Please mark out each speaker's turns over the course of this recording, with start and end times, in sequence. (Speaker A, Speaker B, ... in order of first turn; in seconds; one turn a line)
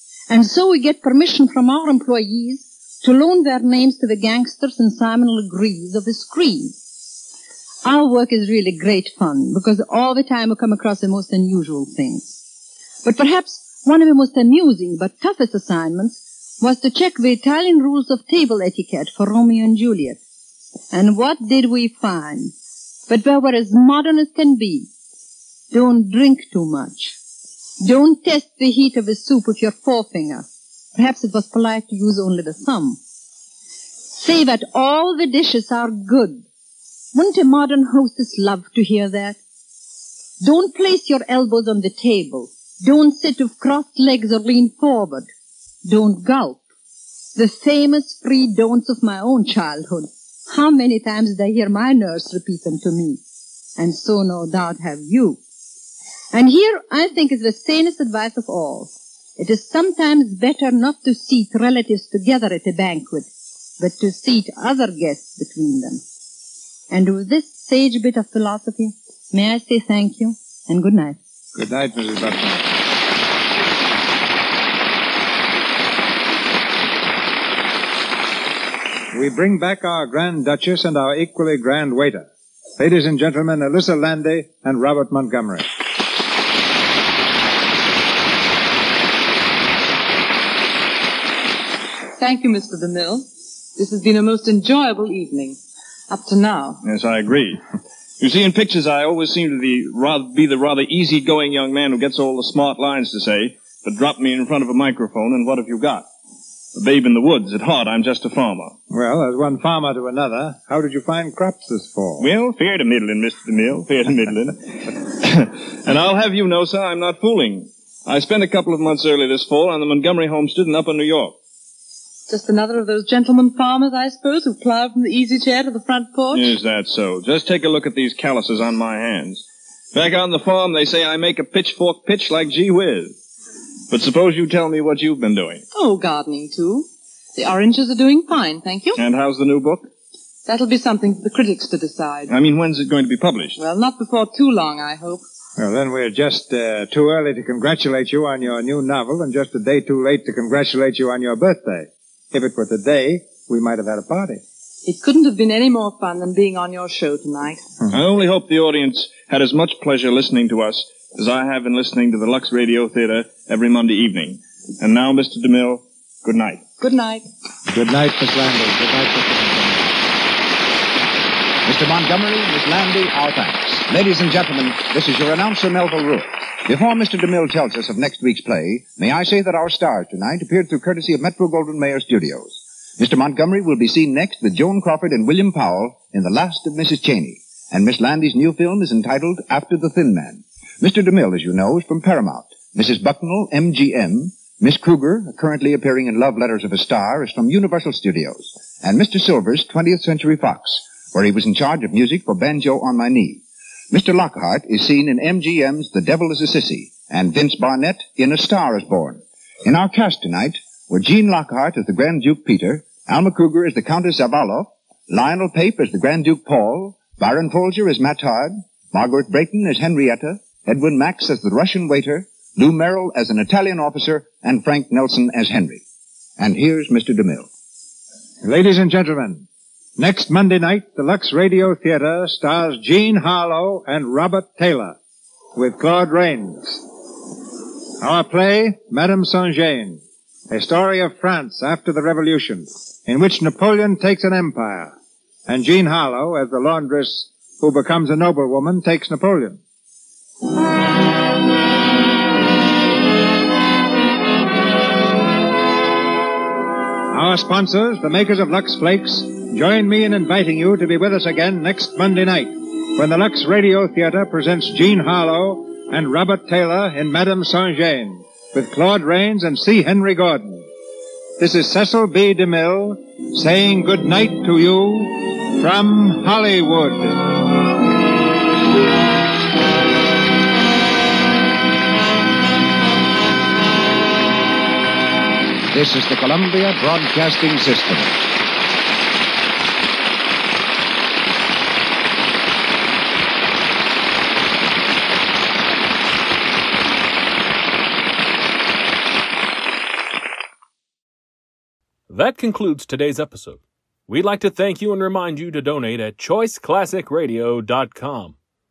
Speaker A: 0.3-6.8
Speaker A: 7.8-12.4
Speaker A: 13.0-20.2
Speaker A: 20.9-22.5
Speaker A: 23.1-24.9
Speaker A: 25.7-27.2
Speaker A: 27.8-33.0
Speaker A: 34.1-36.4
Speaker A: 37.1-39.4
Speaker A: 40.4-45.3
Speaker A: 45.8-46.6
Speaker A: 47.3-53.2
Speaker A: 53.8-55.4
Speaker A: 56.3-63.3
Speaker A: 63.8-66.0
Speaker A: 66.9-71.2
Speaker B: 71.5-72.7
Speaker B: 79.1-85.7
Speaker C: 92.2-95.6
Speaker C: 96.1-96.8
Speaker D: 96.8-97.6
Speaker D: 98.2-106.0
Speaker D: 106.7-108.7
Speaker B: 108.9-112.3
Speaker D: 112.2-121.3
Speaker C: 122.3-126.5
Speaker D: 126.3-133.1
Speaker D: 133.9-135.6
Speaker C: 135.7-139.0
Speaker D: 138.9-139.9
Speaker C: 140.4-142.3
Speaker D: 142.3-143.6
Speaker C: 143.6-145.2
Speaker B: 145.6-154.4
Speaker C: 154.8-157.6
Speaker D: 157.9-166.6
Speaker C: 166.8-167.2
Speaker B: 167.7-169.8
Speaker E: 171.6-225.8
Speaker E: 226.4-227.5
Speaker B: 228.4-229.4
Speaker B: 230.0-235.0
Speaker B: 235.5-236.8
Speaker B: 238.0-244.9
Speaker B: 245.4-249.6
Speaker B: 257.1-270.7
Speaker B: 271.4-277.2
Speaker E: 285.7-288.1
Speaker F: 302.1-308.3